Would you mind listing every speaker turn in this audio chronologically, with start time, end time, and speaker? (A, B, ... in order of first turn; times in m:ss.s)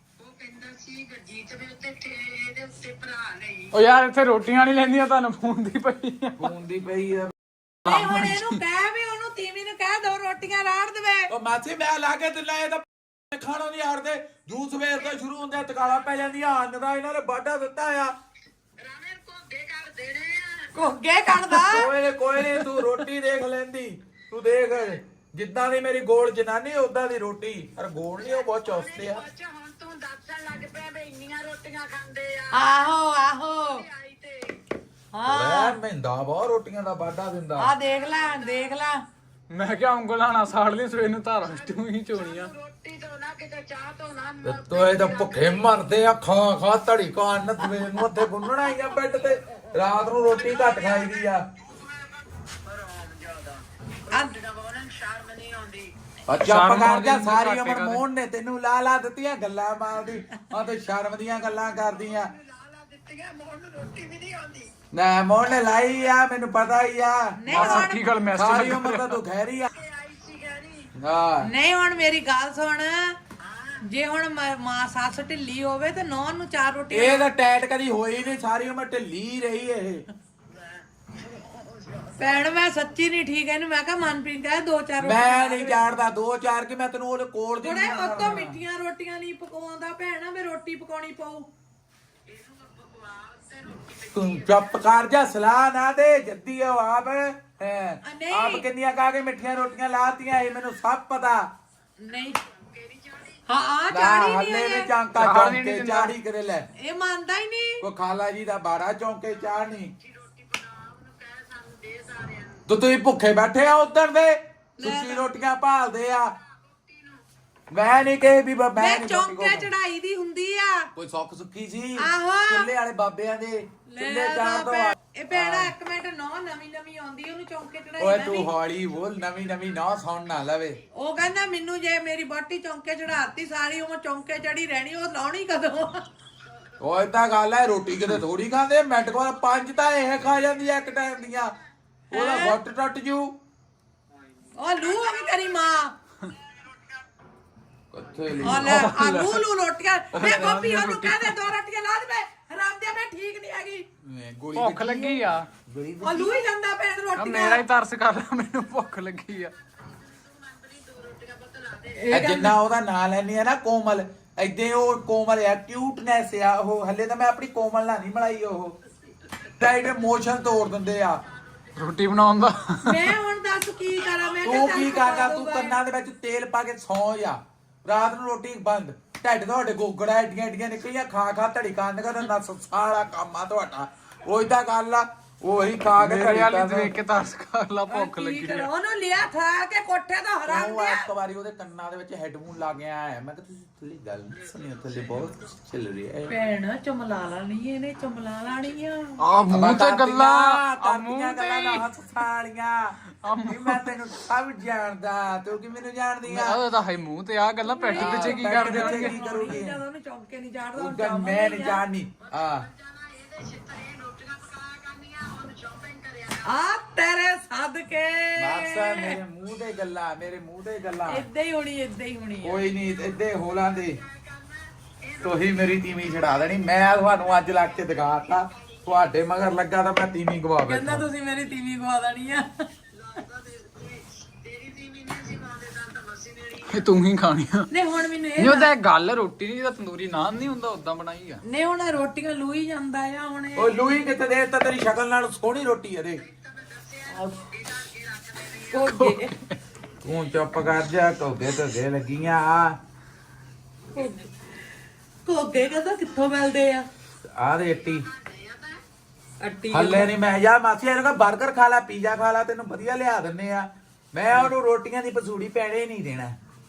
0:00.2-0:03.8 A
0:03.7-0:06.5 B
0:06.4-0:07.3 C
0:07.8-0:08.6 B
0:07.8-0:11.3 D
0:11.3-0:18.1 C
0:18.8-0:20.7 A
0:20.7-0:21.9 D
0:21.6-0:29.2 C
0:28.2-0:32.9 A
0:32.5-0:33.8 D
0:33.6-0:34.6 A
0:35.1-0:35.8 D
0:35.2-0:37.7 C
0:37.6-0:39.0 D
0:37.8-0:38.8 A
0:39.5-0:42.5 B
0:41.4-0:45.8 A
0:44.4-0:51.4 C
0:48.9-0:55.9 A
0:56.3-1:02.3 C
0:56.4-0:58.0 B
1:01.4-1:04.7 A
1:04.9-1:09.7 C
1:07.4-1:08.2 D
1:07.5-1:09.2 B
1:09.7-1:10.9 A
1:11.0-1:11.5 C
1:11.4-1:13.2 D
1:13.4-1:13.8 A
1:13.8-1:17.3 D
1:16.9-1:20.0 C
1:20.5-1:22.7 A
1:22.2-1:25.8 D
1:25.0-1:28.6 C
1:27.6-1:31.5 D
1:32.2-1:35.0 A
1:34.1-1:41.5 C
1:38.0-1:38.6 D
1:42.0-1:42.4 D
1:42.1-1:43.4 A
1:43.5-1:44.9 D
1:43.9-1:46.7 C
1:45.1-1:46.1 B
1:46.8-1:47.8 D
1:47.8-1:49.9 C
1:49.3-1:52.7 A
1:52.7-1:56.3 C
1:54.8-1:55.2 D
1:56.3-1:57.2 A
1:57.7-1:59.7 C
1:58.8-2:00.9 D
2:00.9-2:05.7 C
2:02.0-2:02.7 D
2:03.9-2:08.5 D
2:08.0-2:10.8 C
2:09.6-2:10.0 A
2:10.9-2:16.0 D
2:16.4-2:16.8 A
2:16.8-2:21.5 C
2:20.7-2:21.6 A
2:22.1-2:23.4 C
2:22.1-2:22.6 D
2:24.1-2:27.0 A
2:24.6-2:25.9 D
2:27.9-2:28.9 C
2:28.1-2:28.3 A
2:28.4-2:29.4 B
2:28.4-2:33.8 D
2:30.1-2:30.9 C
2:30.2-2:31.3 B
2:34.0-2:36.4 C
2:34.5-2:35.5 B
2:36.0-2:37.6 D
2:37.1-2:39.5 B
2:38.9-2:42.2 A
2:42.0-2:42.6 D
2:42.1-2:48.8 C
2:48.9-2:52.2 A
2:49.6-2:51.2 C
2:51.8-2:53.1 B
2:52.8-2:55.8 D
2:53.9-2:55.0 A
2:54.4-3:06.9 C
3:05.9-3:08.7 B
3:07.9-3:11.1 D
3:10.5-3:16.3 C
3:14.3-3:15.6 A
3:16.3-3:19.2 D
3:18.5-3:18.8 A
3:19.2-3:21.8 B
3:19.5-3:26.6 C
3:23.2-3:24.0 B
3:26.2-3:29.2 B
3:27.6-3:31.8 D
3:27.9-3:29.8 C
3:30.8-3:32.7 C
3:32.2-3:36.6 A
3:36.4-3:39.2 D
3:38.4-3:41.2 C
3:41.1-3:42.6 D
3:42.4-3:44.0 C
3:43.5-3:49.1 A
3:45.2-3:51.0 C
3:50.6-3:52.5 D
3:52.9-3:56.9 A
3:56.7-3:57.7 B
3:57.7-3:58.7 D
3:58.4-4:01.4 B
4:01.4-4:03.8 D
4:03.6-4:06.2 C
4:06.2-4:09.0 A
4:07.1-4:07.4 D
4:08.7-4:09.3 D
4:09.0-4:09.6 B
4:10.0-4:12.8 C
4:13.9-4:14.3 A
4:13.9-4:14.3 D
4:15.2-4:16.9 D
4:15.7-4:16.2 A
4:17.2-4:18.1 C
4:17.7-4:18.8 A
4:19.4-4:20.1 D
4:19.7-4:26.3 C